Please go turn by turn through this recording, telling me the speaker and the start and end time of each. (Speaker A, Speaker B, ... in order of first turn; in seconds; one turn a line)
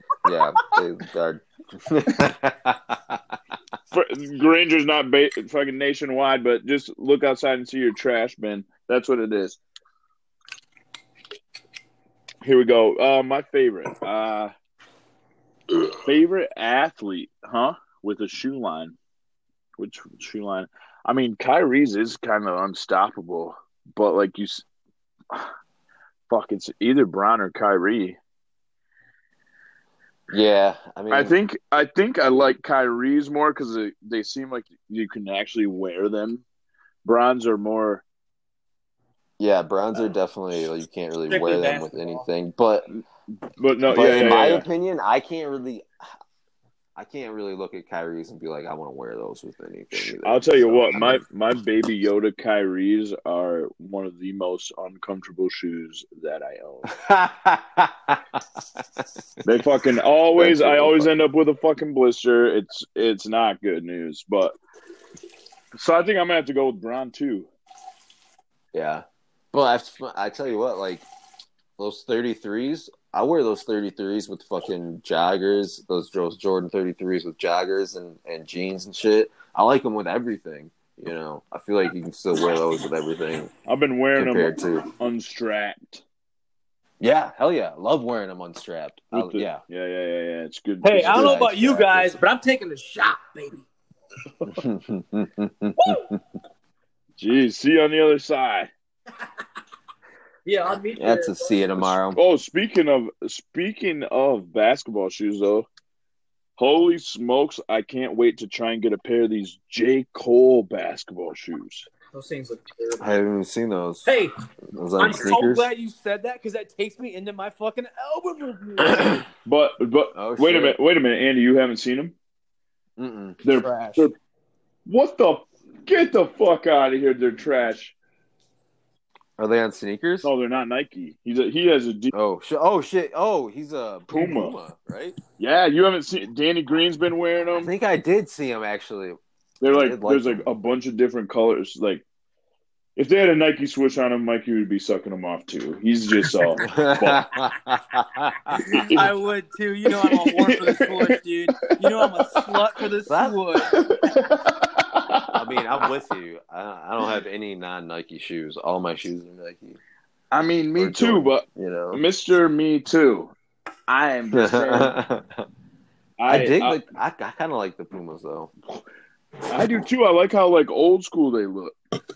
Speaker A: 0.2-3.2
Speaker B: 3.9-9.6
Speaker B: 12.4-14.5
Speaker B: 15.9-18.9
Speaker B: 19.8-24.6
Speaker B: 26.3-28.2
Speaker A: 30.3-31.4
Speaker B: 31.1-36.4
Speaker B: 37.0-38.0
Speaker A: 39.4-42.9
Speaker C: 41.3-42.3
Speaker B: 43.6-44.7
Speaker A: 43.9-45.9
Speaker A: 47.0-51.2
Speaker B: 49.9-56.9
Speaker A: 56.9-58.2
Speaker B: 59.4-64.6
Speaker A: 60.3-61.1
Speaker B: 65.7-67.5
Speaker A: 68.7-71.1
Speaker A: 71.8-83.5
Speaker B: 83.7-86.0
Speaker A: 84.1-84.8
Speaker A: 87.0-89.6
Speaker B: 89.1-91.4
Speaker C: 90.8-93.7
Speaker A: 91.0-92.2
Speaker A: 94.5-96.2
Speaker C: 95.8-96.1
Speaker B: 97.2-98.7
Speaker C: 100.5-101.7
Speaker A: 101.0-102.2
Speaker B: 102.1-105.7
Speaker B: 106.6-111.9
Speaker C: 112.1-113.1
Speaker A: 113.0-114.1
Speaker C: 114.0-114.3
Speaker A: 114.7-115.7
Speaker C: 115.0-119.2
Speaker A: 118.9-119.2
Speaker B: 119.5-122.1
Speaker A: 120.1-120.8
Speaker A: 123.0-123.4
Speaker B: 123.4-124.1
Speaker C: 123.6-124.1
Speaker B: 124.9-128.0
Speaker A: 129.4-130.3
Speaker B: 130.2-132.1
Speaker A: 132.1-135.2
Speaker B: 134.1-134.6
Speaker B: 135.4-137.7
Speaker A: 137.6-139.2
Speaker B: 139.6-142.0
Speaker A: 139.7-140.4
Speaker B: 142.9-147.2
Speaker A: 146.6-148.9
Speaker B: 148.6-149.1
Speaker C: 148.9-153.8
Speaker B: 150.1-151.2
Speaker B: 152.0-152.4
Speaker A: 153.1-153.6
Speaker B: 153.7-155.4
Speaker A: 155.3-159.8
Speaker B: 160.3-163.3
Speaker A: 160.8-162.0
Speaker B: 163.9-164.9
Speaker A: 164.3-165.4
Speaker B: 166.2-166.8
Speaker A: 166.3-168.5
Speaker B: 169.5-171.7